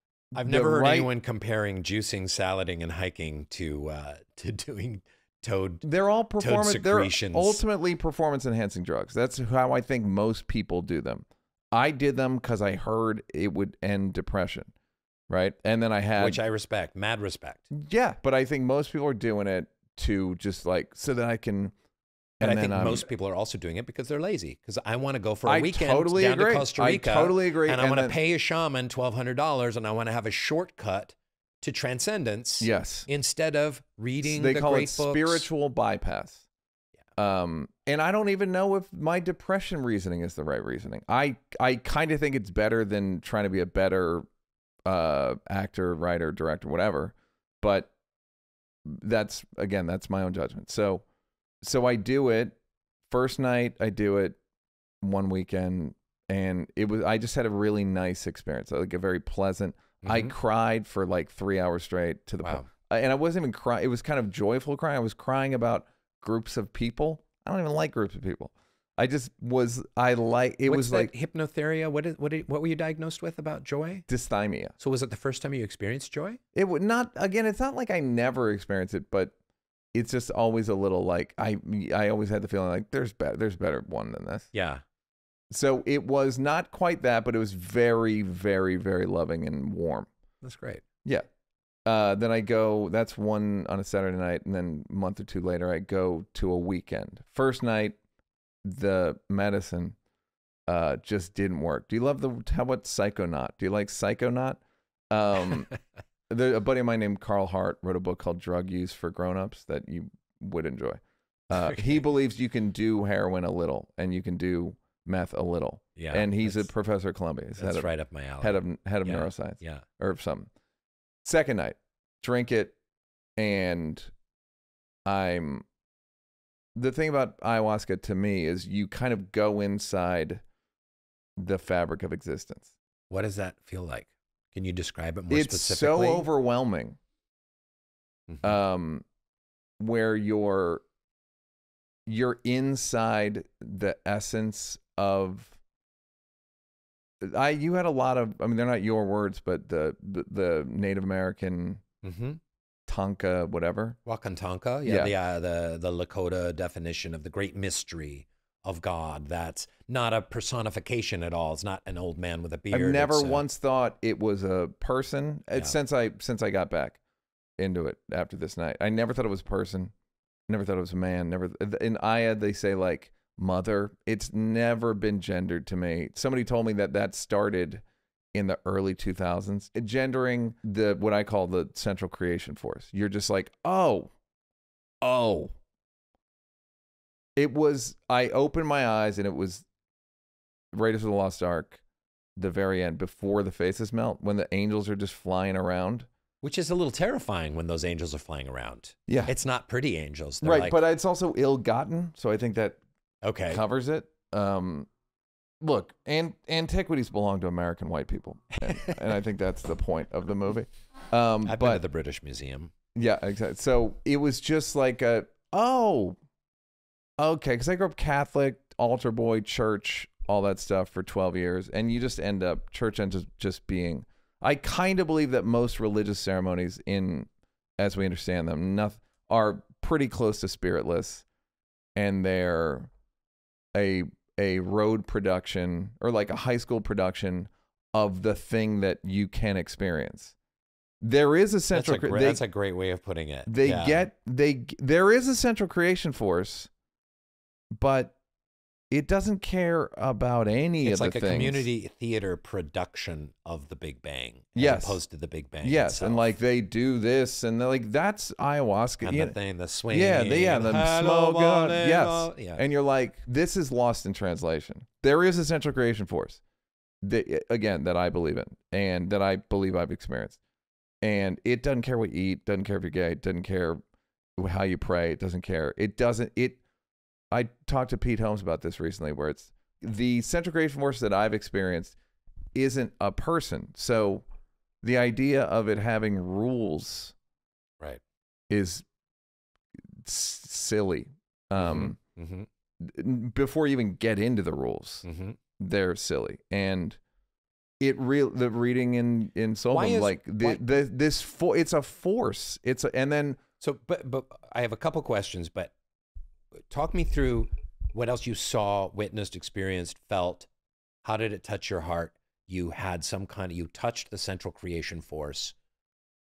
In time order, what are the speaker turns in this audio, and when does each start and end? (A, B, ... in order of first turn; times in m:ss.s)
0:00.4-0:05.9 A
0:00.4-0:01.1 B
0:05.8-0:14.7 B
0:06.4-0:07.6 A
0:15.3-0:16.4 B
0:16.2-0:17.7 A
0:17.7-0:21.7 B
0:22.4-0:23.0 B
0:22.4-0:35.5 A
0:25.5-0:28.2 B
0:32.6-0:33.1 B
0:34.2-0:36.4 B
0:37.2-0:44.2 B
0:44.8-0:47.9 B
0:48.8-0:51.0 B
0:51.6-0:52.6 B
0:53.1-0:54.4 B
0:55.0-1:11.1 B
1:00.0-1:00.3 A
1:02.4-1:02.7 A
1:10.7-1:14.1 A
1:14.1-1:14.8 B
1:14.8-1:16.4 A
1:16.6-1:19.4 B
1:19.9-1:24.5 B
1:24.5-1:24.8 A
1:25.5-1:30.1 B
1:30.4-1:30.8 A
1:31.9-1:38.0 B
1:38.6-1:40.0 B
1:40.7-1:45.7 B
1:46.3-1:57.9 B
1:51.5-1:52.0 A
1:56.0-1:56.7 A
1:57.6-1:59.8 A
1:58.4-2:00.5 B
2:01.2-2:02.8 B
2:03.4-2:04.1 B
2:05.1-2:05.7 B
2:06.8-2:10.4 B
2:11.4-2:12.7 B
2:13.1-2:16.3 A
2:15.3-2:17.0 B
2:18.3-2:18.6 A
2:18.4-2:19.0 B
2:19.8-2:20.8 B
2:22.1-2:25.6 B
2:27.2-2:31.8 B
2:32.0-2:32.4 A
2:32.9-2:34.0 B
2:34.0-2:43.5 A
2:34.8-2:35.1 B
2:42.7-2:47.0 B
2:47.6-2:49.9 B
2:50.5-2:57.8 B
2:58.3-3:04.1 B
3:05.0-3:05.6 B
3:07.4-3:09.7 B
3:10.7-3:11.8 B
3:12.4-3:16.1 B
3:16.4-3:20.8 A
3:20.4-3:22.8 B
3:23.2-3:23.6 A
3:23.5-3:24.9 B
3:25.6-3:31.8 B
3:28.6-3:29.0 A
3:31.4-3:32.7 A
3:33.0-3:36.2 B
3:37.2-3:51.3 B
3:52.0-3:52.9 B
3:53.8-4:00.4 B
4:01.0-4:02.4 B
4:01.7-4:04.1 A
4:03.5-4:06.7 B
4:07.7-4:08.2 B
4:08.9-4:11.6 B
4:10.8-4:16.4 A
4:14.6-4:15.0 B
4:15.6-4:19.4 B
4:19.0-4:22.6 A
4:19.9-4:26.4 B
4:27.0-4:30.4 B
4:31.0-4:33.8 B
4:34.4-4:36.6 B
4:37.3-4:42.0 B
4:42.5-4:44.2 B
4:44.8-4:47.2 B
4:48.5-4:48.9 B
4:49.9-4:52.0 B
4:51.6-4:52.5 A
4:52.8-4:55.0 B
4:55.0-4:55.4 A
4:55.6-4:57.0 B
4:57.8-5:03.4 B
4:59.7-5:00.8 A
5:03.6-5:05.8 A
5:06.7-5:10.5 A
5:11.0-5:15.6 A